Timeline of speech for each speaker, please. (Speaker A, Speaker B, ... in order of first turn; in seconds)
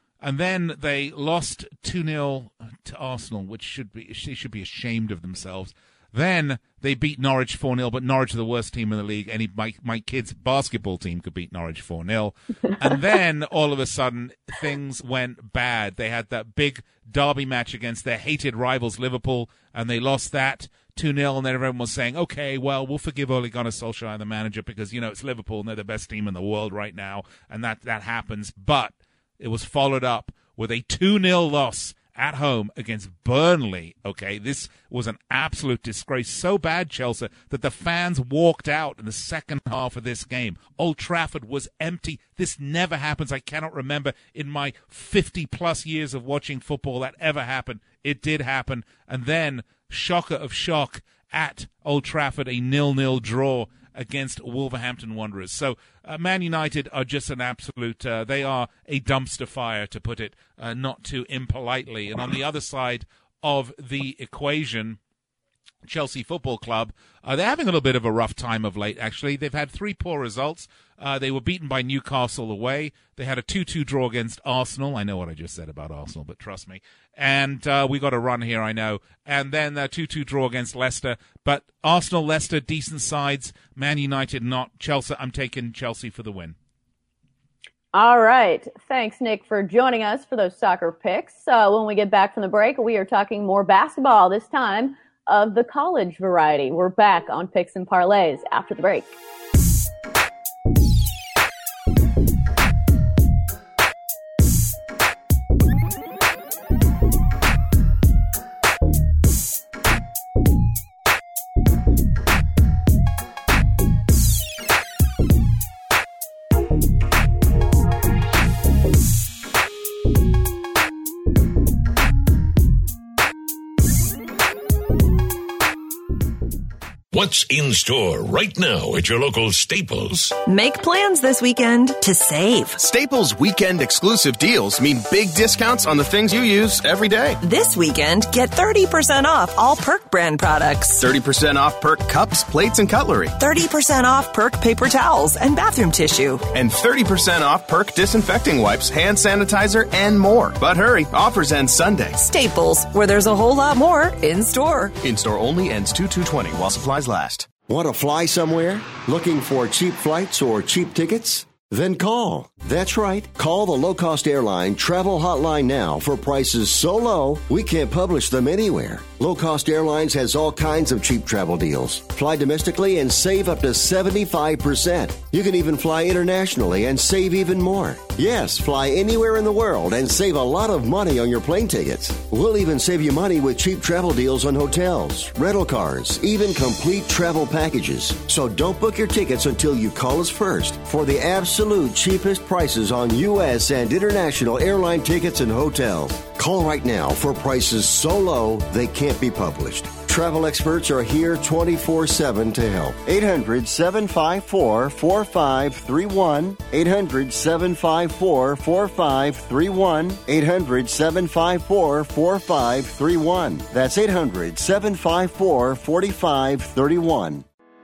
Speaker A: 0.2-65.0, 65.8-86.5
Speaker B: 87.9-99.1
Speaker C: 127.1-130.4
Speaker D: 130.4-132.8, 137.4-141.0, 143.4-146.4, 152.2-154.9
Speaker E: 132.8-137.4, 141.0-143.3, 146.5-152.2, 155.0-157.5
Speaker F: 157.7-217.4